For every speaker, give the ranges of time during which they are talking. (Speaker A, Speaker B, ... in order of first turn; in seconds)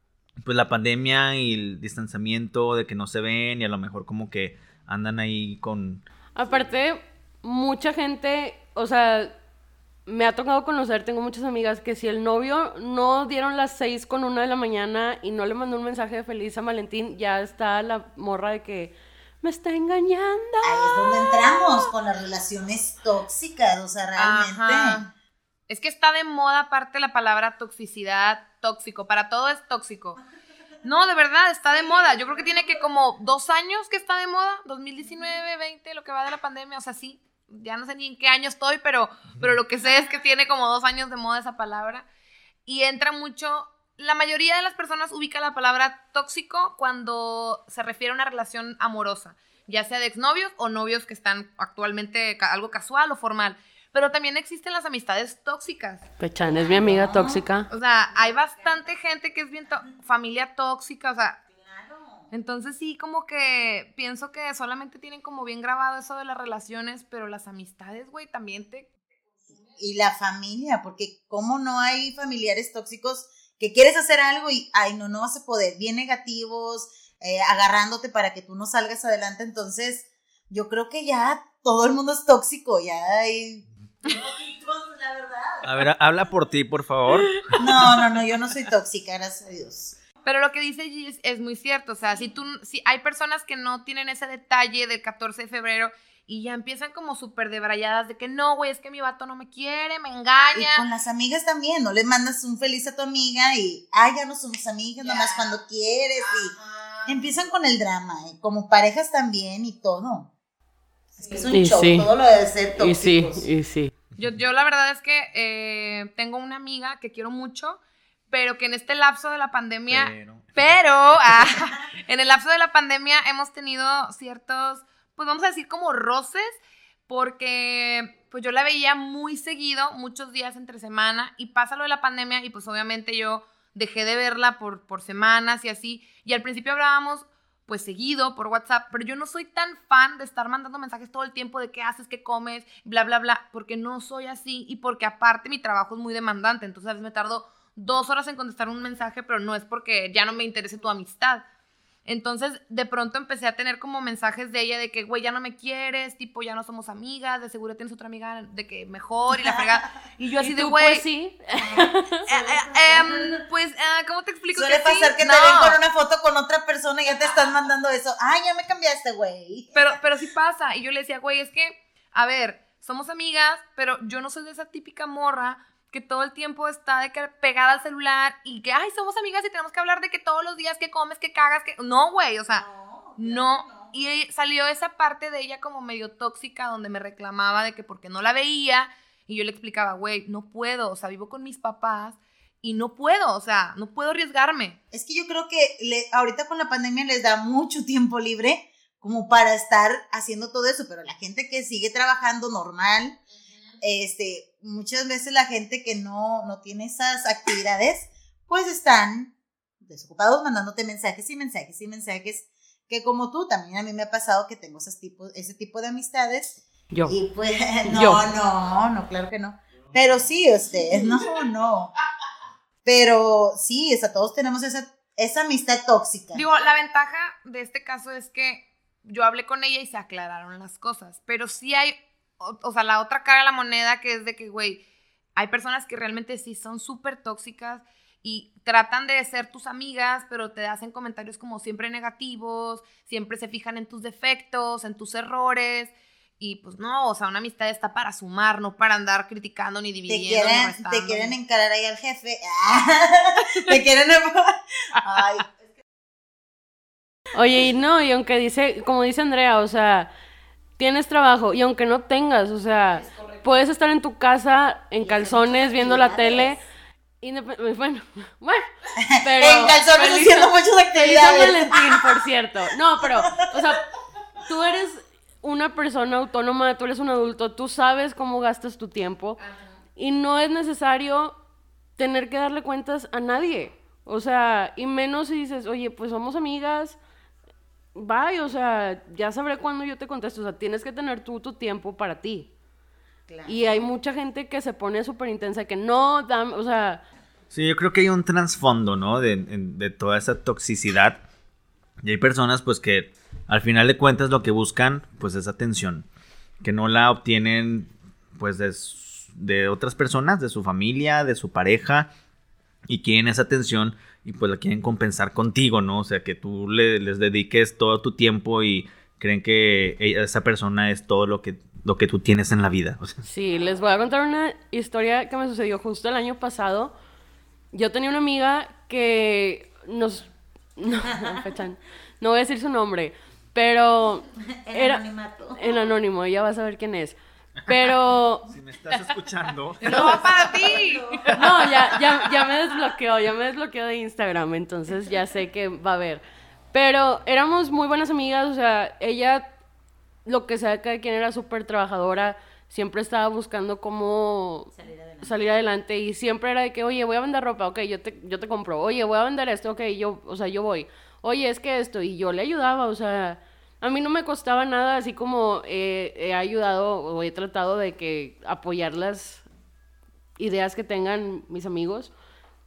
Speaker A: 0.4-6.0, 85.6-87.5, 119.9-120.5, 297.5-301.2, 302.0-306.1, 306.6-312.1, 312.9-323.2, 338.5-340.5
Speaker B: 6.4-9.3, 10.1-21.9, 56.2-57.7, 111.5-112.1, 112.8-113.9, 160.4-162.3, 217.9-218.3, 257.3-260.1, 260.8-266.6, 267.2-268.7, 269.2-273.8, 274.5-279.4, 280.0-281.4, 282.0-287.0, 287.9-292.5, 293.5-297.0, 323.2-326.9, 327.7-335.0, 335.6-338.5, 341.3-349.5, 350.3-369.4, 370.4-372.1
Speaker C: 20.6-25.0, 56.4-57.4, 61.6-62.3, 69.6-85.7, 87.6-90.0, 100.5-106.5, 107.1-110.3, 111.2-113.5, 159.3-159.8, 161.6-163.5, 164.6-170.0, 182.5-183.9, 194.9-203.2, 203.8-221.9, 222.8-226.4, 250.1-255.5, 265.0-266.6, 269.0-272.2, 273.0-273.7, 293.3-293.8, 334.4-335.8, 339.9-341.7, 354.7-355.3
Speaker D: 24.2-25.1, 25.7-30.2, 30.8-42.1, 42.7-56.1, 57.7-61.4, 62.3-68.9, 90.2-100.9, 105.0-105.5, 106.2-107.2, 111.2-111.5, 114.2-151.4, 152.1-161.1, 162.3-165.8, 169.7-182.7, 183.2-194.8, 226.3-234.8, 235.4-251.3, 339.8-341.2